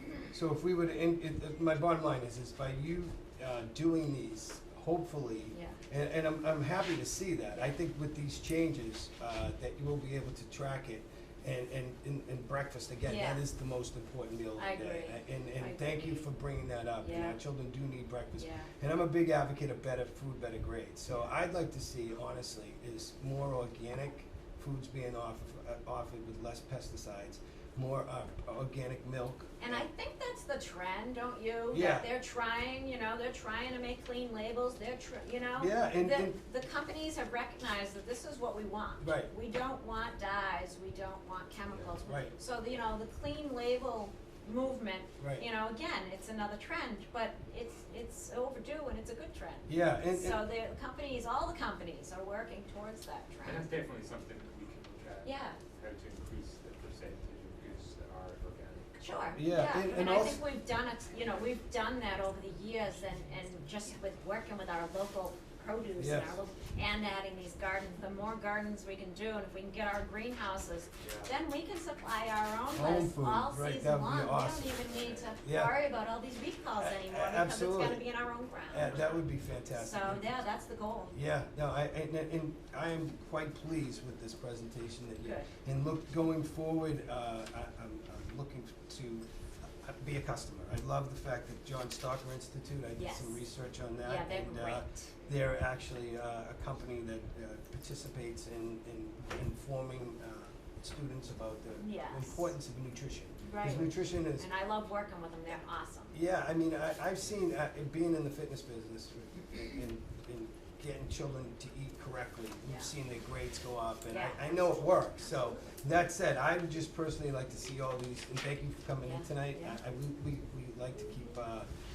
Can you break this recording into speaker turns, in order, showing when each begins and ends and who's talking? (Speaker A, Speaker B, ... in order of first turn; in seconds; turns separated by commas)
Speaker A: 0.3-29.8, Speaker B: 5.5-5.8, Speaker B: 13.0-13.4, Speaker B: 14.6-16.3, Speaker B: 17.0-17.4, Speaker B: 18.4-18.7, Speaker B: 29.6-53.7, Speaker A: 31.7-32.1, Speaker A: 35.6-36.4, Speaker A: 39.0-39.3, Speaker A: 42.0-42.3, Speaker A: 45.2-45.5, Speaker A: 49.7-50.4, Speaker C: 53.4-59.4, Speaker B: 55.2-55.6, Speaker B: 59.0-79.2, Speaker A: 59.3-60.4, Speaker A: 66.0-66.4, Speaker C: 71.0-71.3, Speaker A: 72.7-74.8, Speaker C: 74.8-75.4, Speaker A: 75.4-75.8, Speaker A: 76.8-78.0, Speaker A: 78.7-80.3, Speaker B: 79.7-81.1, Speaker A: 81.1-89.2, Speaker B: 85.2-85.5, Speaker A: 89.8-104.5, Speaker B: 93.0-93.4, Speaker B: 94.0-95.1, Speaker B: 101.8-102.5, Speaker B: 103.4-106.1, Speaker A: 106.1-121.7, Speaker B: 112.6-112.9, Speaker B: 114.1-115.7, Speaker B: 119.0-119.8